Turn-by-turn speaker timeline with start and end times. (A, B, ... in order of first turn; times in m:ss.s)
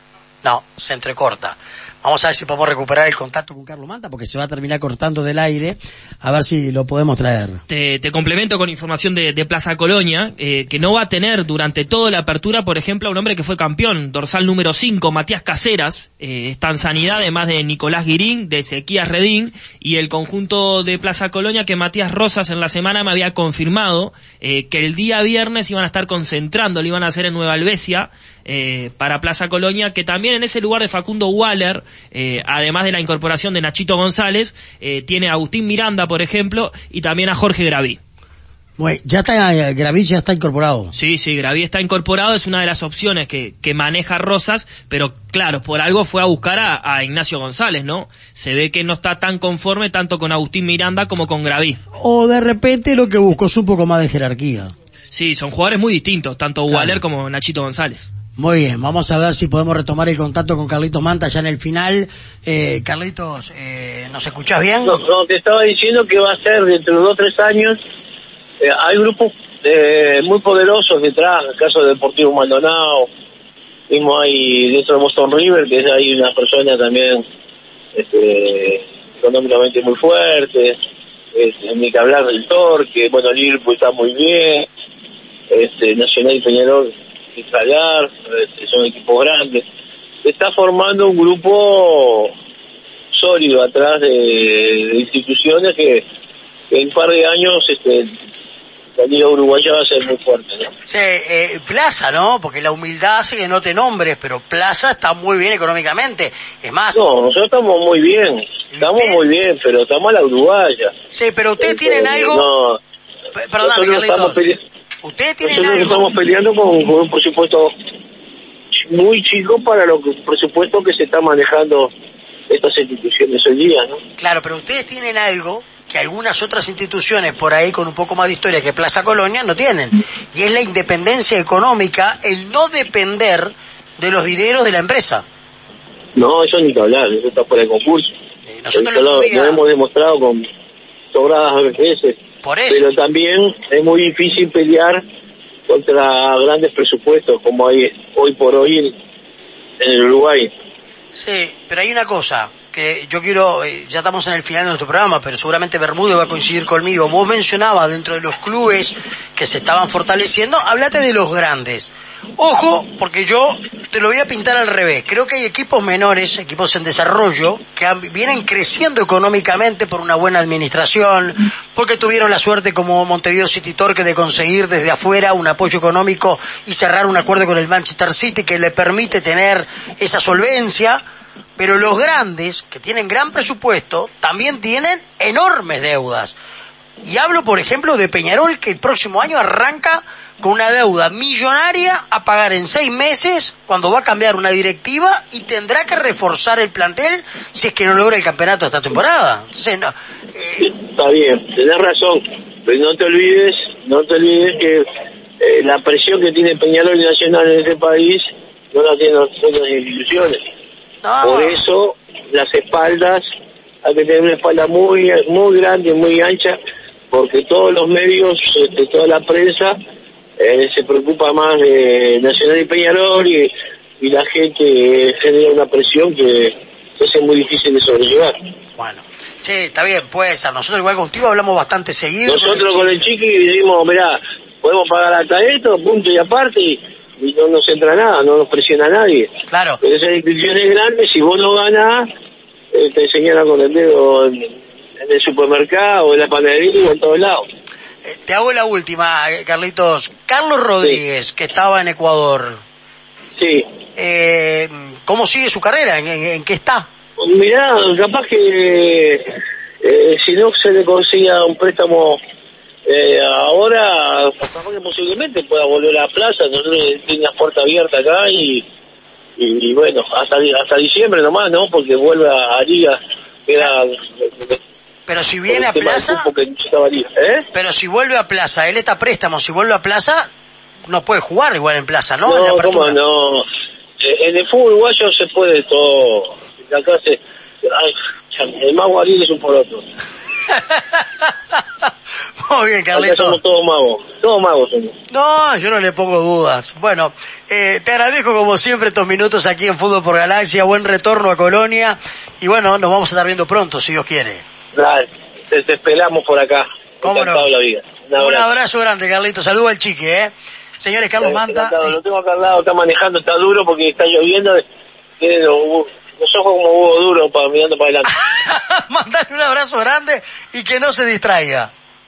0:00.4-0:07.6 A
0:07.7-0:38.0 B
0:38.8-0:40.9 A
0:40.9-0:51.8 B
0:52.0-0:54.7 A
0:55.1-0:58.1 B
0:56.7-0:57.0 A
0:58.4-1:05.0 A
1:04.8-1:07.8 C
1:08.6-1:13.1 C
1:13.9-1:17.2 C
1:17.9-1:20.8 C
1:21.3-1:24.7 C
1:25.5-1:29.7 C
1:30.2-1:32.3 C
1:33.1-1:36.1 C
1:36.7-1:38.1 C
1:39.0-1:40.7 C
1:40.9-1:47.0 A
1:46.9-1:50.9 C
1:48.7-1:49.2 A
1:51.1-1:52.5 A
1:51.6-1:52.8 C
1:53.3-1:54.4 A
1:53.6-1:54.6 C
1:55.0-1:56.1 A
1:55.4-1:57.7 C
1:58.9-2:01.9 C
2:02.5-2:04.0 C
2:04.2-2:15.2 A
2:16.2-2:18.1 C
2:18.5-2:19.6 A
2:18.7-2:20.4 C
2:21.1-2:22.2 C
2:22.4-2:22.8 A
2:22.7-2:25.0 C
2:25.7-2:29.0 C
2:29.8-2:30.5 C
2:31.1-3:01.0 A
3:01.6-3:06.4 A
3:07.0-3:20.7 A
3:20.6-3:24.8 C
3:25.4-3:30.4 C
3:31.0-3:31.6 A
3:31.2-3:33.2 C
3:33.8-3:36.6 C
3:37.1-3:39.8 C
3:40.4-3:48.3 C
3:48.8-3:53.0 A
3:52.3-3:59.3 C
3:59.5-3:59.8 A
3:59.8-4:02.1 C
4:02.7-4:07.5 C
4:08.0-4:12.6 A
4:13.4-4:13.7 C
4:14.0-4:16.9 A
4:17.2-4:22.2 C
4:22.8-4:28.7 C
4:29.4-4:34.6 C
4:35.1-4:36.3 A
4:35.5-4:37.5 C
4:37.5-4:40.3 A
4:40.9-4:43.0 A
4:42.3-4:43.4 C
4:44.0-4:49.8 C
4:50.5-4:51.6 A
4:52.4-4:53.4 A
4:52.9-4:55.0 C
4:55.1-5:04.4 A
5:04.7-5:08.5 C
5:07.0-5:07.5 A
5:08.2-5:11.9 A
5:11.2-5:14.6 C
5:15.2-5:18.1 C
5:18.1-5:21.7 A